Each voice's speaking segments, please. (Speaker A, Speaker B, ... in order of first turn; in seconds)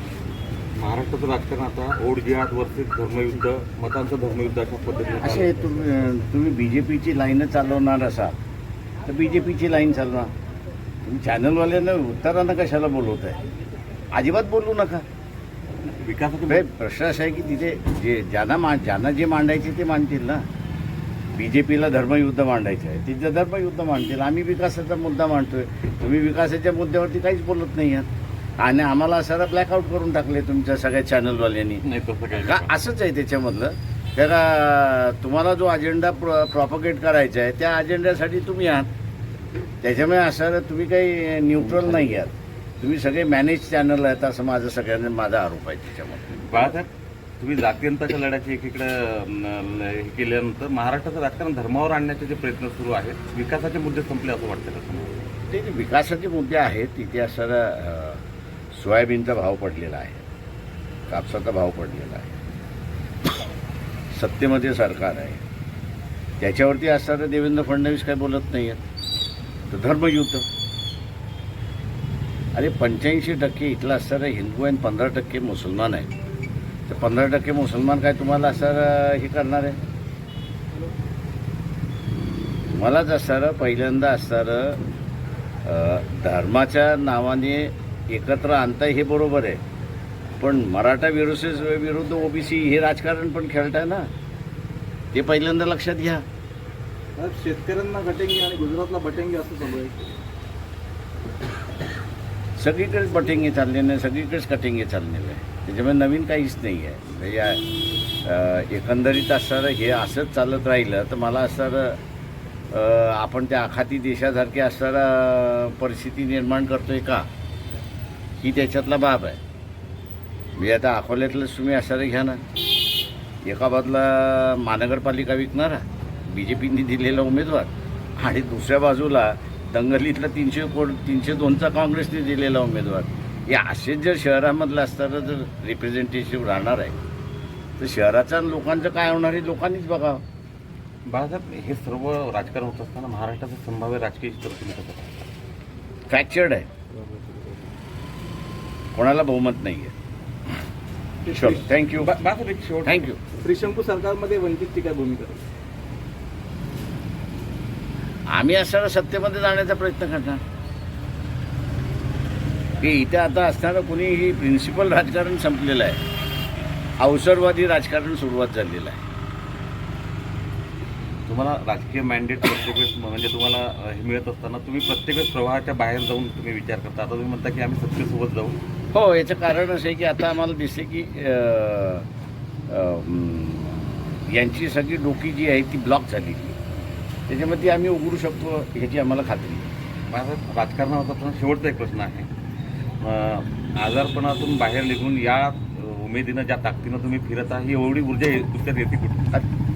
Speaker A: 0.8-5.6, 15.9-16.7, 31.8-32.7, 46.4-55.3, 141.1-145.2, 152.0-153.1, 171.3-178.6, 190.1-192.3, 193.0-199.3
Speaker B: 5.2-8.3, 9.1-10.3, 11.1-13.4, 14.1-15.1, 16.5-20.4, 21.4-28.1, 28.6-38.9, 39.8-46.6, 55.5-60.2, 61.1-62.3, 64.1-65.4, 66.4-68.8, 69.7-70.5, 72.5-76.1, 76.9-79.8, 82.7-84.8, 85.6-89.6, 90.4-94.1, 95.1-96.2, 102.6-107.7, 108.2-112.0, 112.7-117.3, 118.4-119.4, 120.6-122.4, 123.4-136.9, 137.8-140.2, 146.1-146.7, 148.9-149.9, 151.3-152.2, 152.8-153.2, 158.3-160.4, 162.8-166.0, 167.0-169.0, 178.9-182.1, 182.7-186.6, 187.3-189.7
Speaker C: 97.2-100.0, 146.9-147.6, 151.3-151.6, 153.4-155.4